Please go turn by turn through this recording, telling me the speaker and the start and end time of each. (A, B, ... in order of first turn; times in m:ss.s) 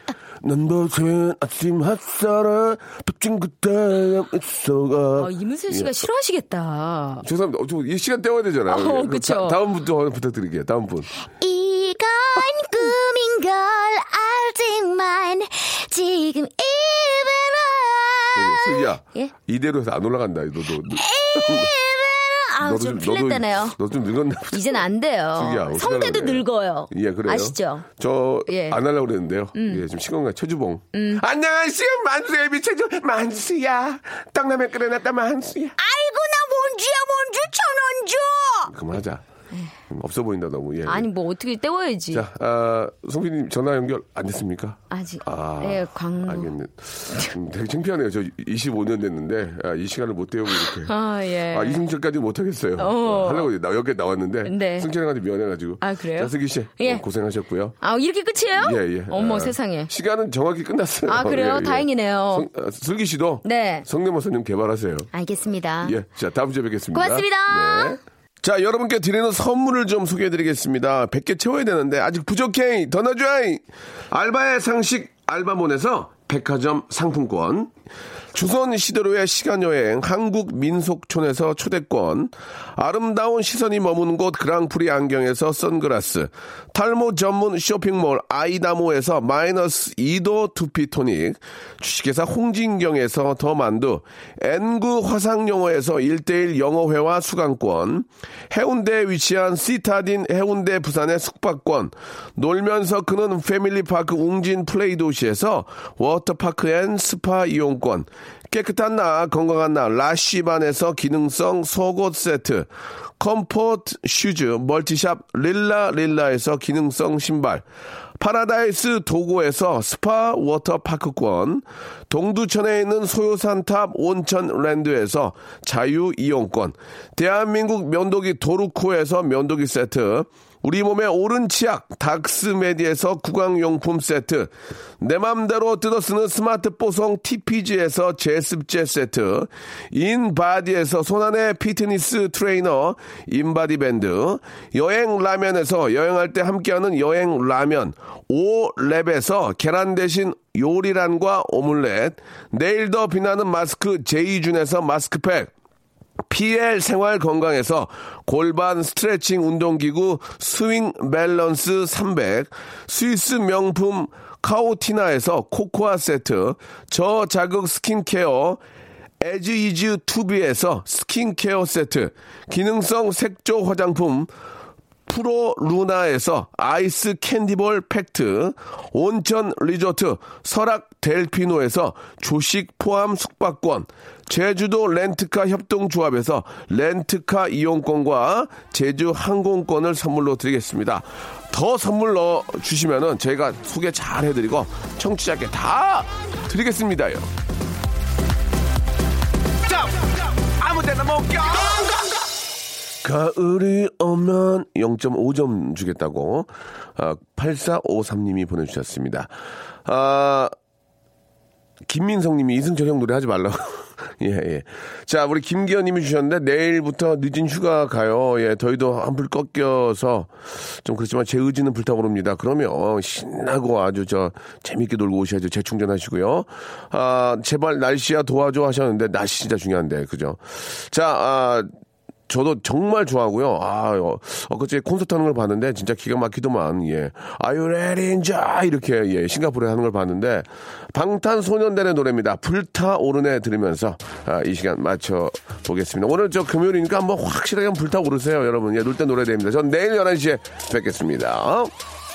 0:00.4-0:05.9 A
0:05.2-0:07.2 B
0:07.2-0:11.1 A
0:08.7-0:09.6 B
0:11.2-0:19.3 B
0:18.3-0:21.7 A
0:20.9-0:23.8 B
0:22.6-0:24.8 A
0:24.5-0:27.8 B
0:25.3-0:35.8 A
0:28.5-0:28.8 B
0:29.5-0:29.8 B
0:30.9-0:31.2 B
0:35.8-0:38.7 B
0:38.7-0:39.2 A
0:39.9-0:41.1 A
0:40.8-0:42.2 B
0:42.1-0:50.9 A
0:44.9-0:46.5 B
0:50.5-0:51.8 B
0:51.5-0:57.7 A
0:52.8-0:53.5 B
0:54.4-0:54.9 B
0:55.8-0:57.0 B
0:57.8-0:59.9 B
0:58.5-1:05.1 A
1:01.1-1:02.5 B
1:03.4-1:03.8 B
1:05.1-1:06.0 B
1:05.8-1:17.7 A
1:06.9-1:08.0 B
1:18.3-1:57.6 A
1:58.2-2:35.5 A
2:36.3-2:48.6 A
2:49.2-2:54.3 A
2:55.1-3:17.3 A
3:20.6-3:21.8 A
3:23.0-3:29.3 A
3:29.8-3:30.5 A
3:31.9-3:51.7 A
3:52.3-4:11.7 A